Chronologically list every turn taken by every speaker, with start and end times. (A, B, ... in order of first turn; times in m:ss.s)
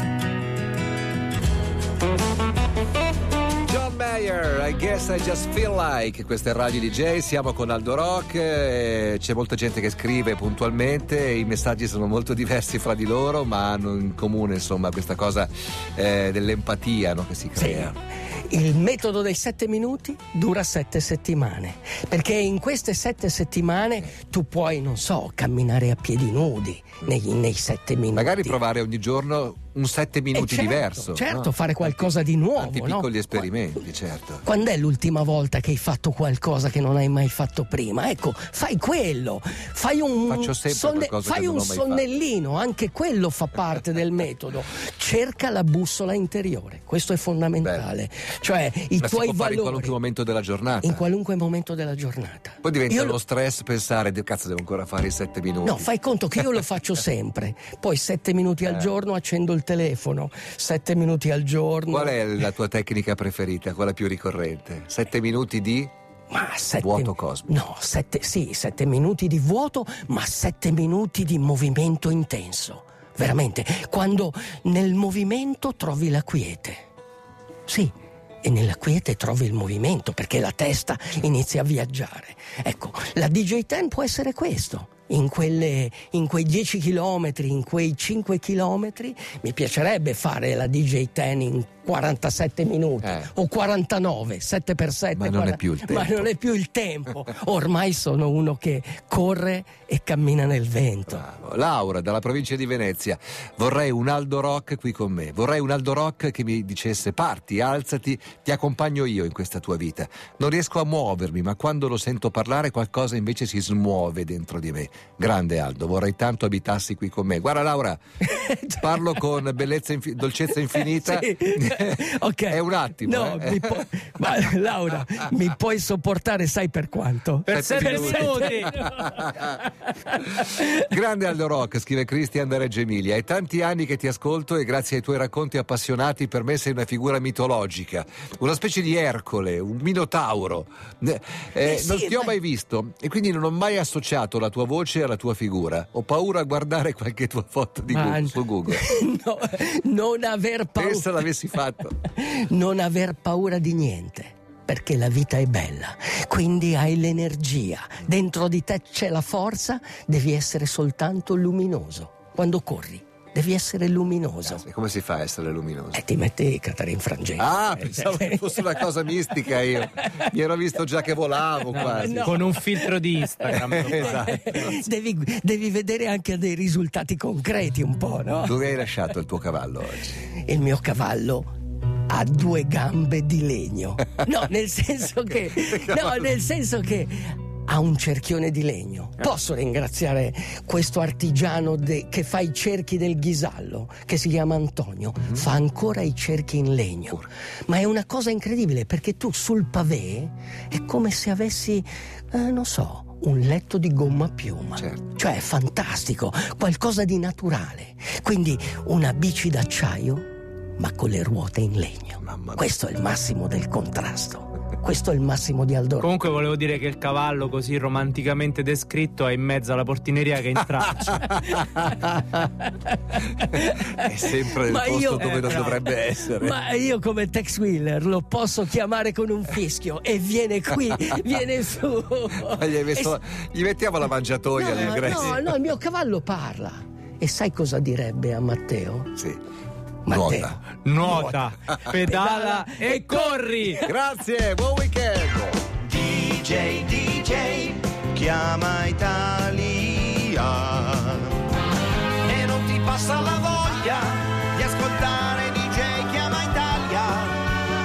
0:03.7-0:18.0 A
0:17.6-0:28.6 B
0:28.1-0:34.4 A
0:30.3-0:33.5 B
0:34.4-0:50.0 B
0:40.3-0:42.0 A
0:49.0-0:51.0 A
0:50.8-0:53.2 B
0:52.6-0:55.9 A
0:55.6-1:02.2 B
1:01.9-1:05.9 A
1:06.3-1:16.8 B
1:06.8-1:07.5 A
1:17.7-1:41.2 B
1:33.0-1:33.3 A
1:35.2-1:36.3 A
1:41.1-1:58.0 A
1:58.2-1:59.2 B
1:58.8-2:03.9 A
2:00.6-2:10.8 B
2:07.5-2:08.8 C
2:07.5-2:09.5 A
2:10.8-2:28.8 A
2:21.6-2:22.4 B
2:27.9-2:31.3 B
2:30.8-2:32.0 A
2:32.1-2:44.6 B
2:44.6-2:46.0 A
2:45.9-2:50.3 B
2:47.4-2:52.6 A
2:51.7-2:54.3 C
2:51.8-2:58.6 B
2:53.5-2:54.8 A
2:58.4-3:00.2 A
3:00.4-3:01.5 B
3:02.1-3:30.2 B
3:05.6-3:06.3 A
3:30.8-3:36.1 B
3:32.2-3:32.7 A
3:36.0-3:41.3 C
3:40.7-3:42.3 A
3:41.1-3:53.2 B
3:43.7-3:46.6 A
3:52.4-3:55.6 A
3:54.5-3:59.1 B
3:54.7-3:55.4 C
4:00.0-4:03.9 B
4:00.1-4:00.6 A
4:00.8-4:03.8 C
4:03.8-4:05.7 A
4:05.8-4:11.4 D
4:12.2-4:17.6 D